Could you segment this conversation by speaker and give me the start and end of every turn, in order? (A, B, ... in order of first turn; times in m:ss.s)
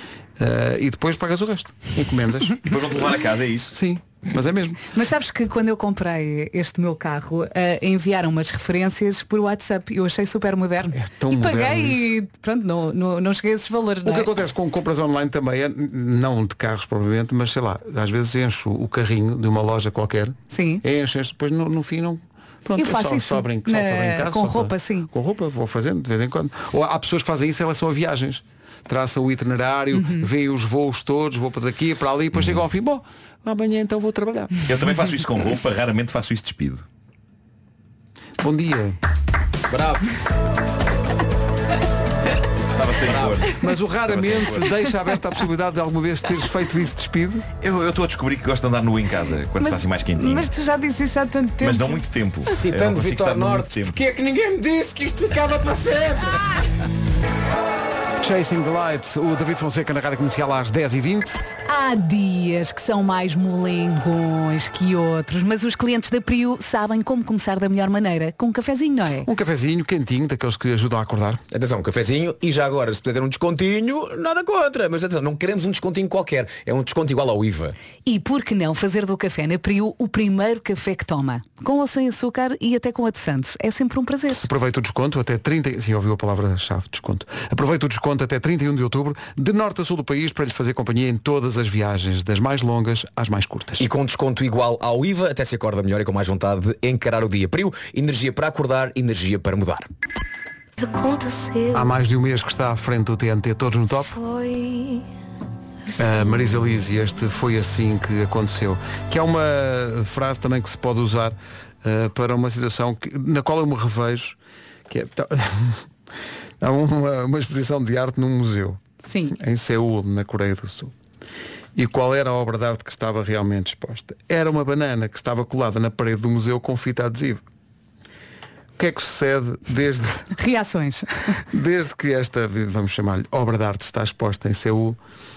0:00.4-0:02.6 A
0:02.6-0:03.8 B
0:03.7-0:04.8 A
0:04.9-0:14.3 C
0:10.9-0:12.1 A
0:14.0-0:34.6 A
0:20.5-0:20.8 C
0:22.8-0:25.1 C
0:29.9-0:30.2 C
0:32.3-0:32.6 B
0:34.6-0:36.8 B
0:38.4-0:39.0 A
0:39.7-0:40.1 D
0:42.7-0:43.6 B
0:43.1-0:43.5 D
0:43.6-0:47.4 A
0:44.1-0:44.7 B
0:47.6-0:50.5 B
0:49.6-0:52.0 C
0:51.6-0:54.0 B
0:52.4-0:56.4 D
0:58.2-1:01.4 A
1:01.6-1:09.3 C
1:09.2-1:11.4 A
1:11.5-1:17.8 D
1:18.0-1:24.5 C
1:24.4-1:33.9 A
1:33.8-1:39.9 D
1:40.8-1:41.9 E
1:41.7-1:44.1 A
1:44.1-1:45.0 E
1:46.0-1:54.4 A
1:54.9-1:55.8 A
1:56.6-2:00.9 A
1:59.0-1:59.4 C
2:01.8-2:07.4 A
2:08.8-2:10.3 A
2:10.4-2:11.4 C
2:11.5-2:15.0 A